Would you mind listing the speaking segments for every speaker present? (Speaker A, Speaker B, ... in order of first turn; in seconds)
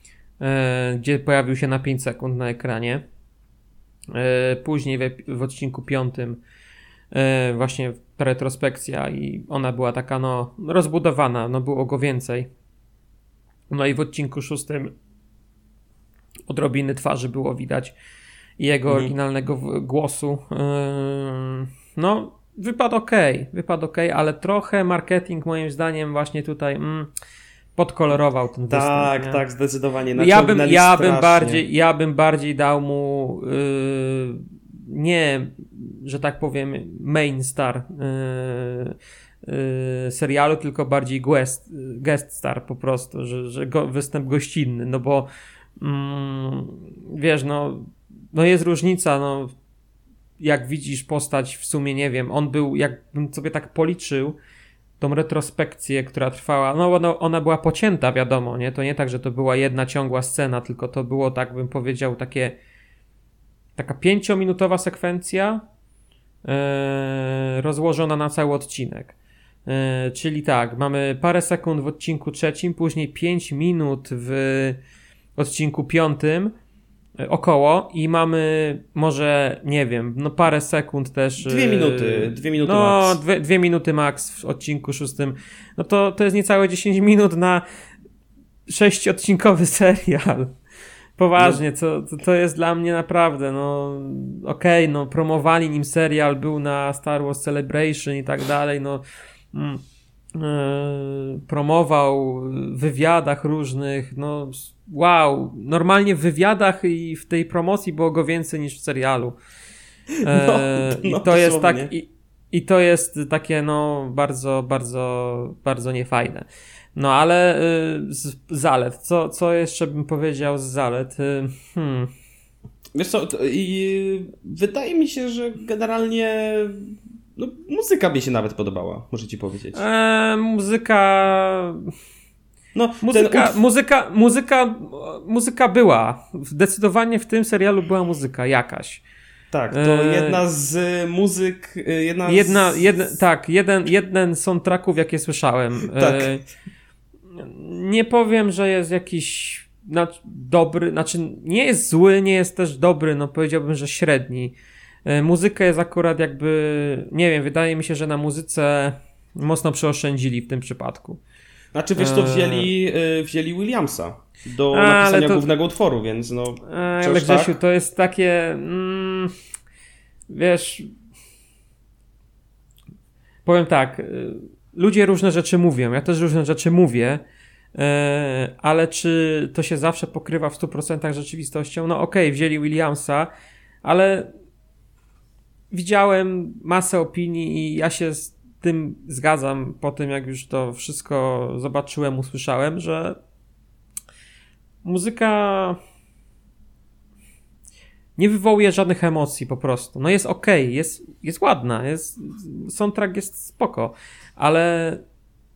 Speaker A: 0.4-3.0, 4.1-6.4, 7.1-12.5, 13.7-14.9, 16.5-17.9, 18.6-27.1, 27.8-29.4, 30.1-38.9, 39.4-49.5, 50.4-54.4, 55.0-62.5, 63.8-65.6, 66.4-69.1, 69.7-74.8, 75.3-76.5, 77.2-87.6, 88.7-90.5, 91.2-99.8, 100.3-109.4, 110.2-122.1, 129.7-131.9, 133.0-139.0, 139.7-140.4, 142.2-146.4, 147.3-154.5, 155.0-161.2, 161.9-162.7, 164.7-165.4, 166.6-169.3, 170.3-170.9, 173.4-177.2, 177.7-183.3, 183.8-184.3, 185.7-193.2, 194.8-195.8, 198.2-205.0
Speaker B: 18.9-19.1, 28.7-31.6, 81.4-83.2, 110.2-111.9, 122.9-129.8, 132.7-133.6, 139.5-142.9, 145.9-146.3, 161.7-167.5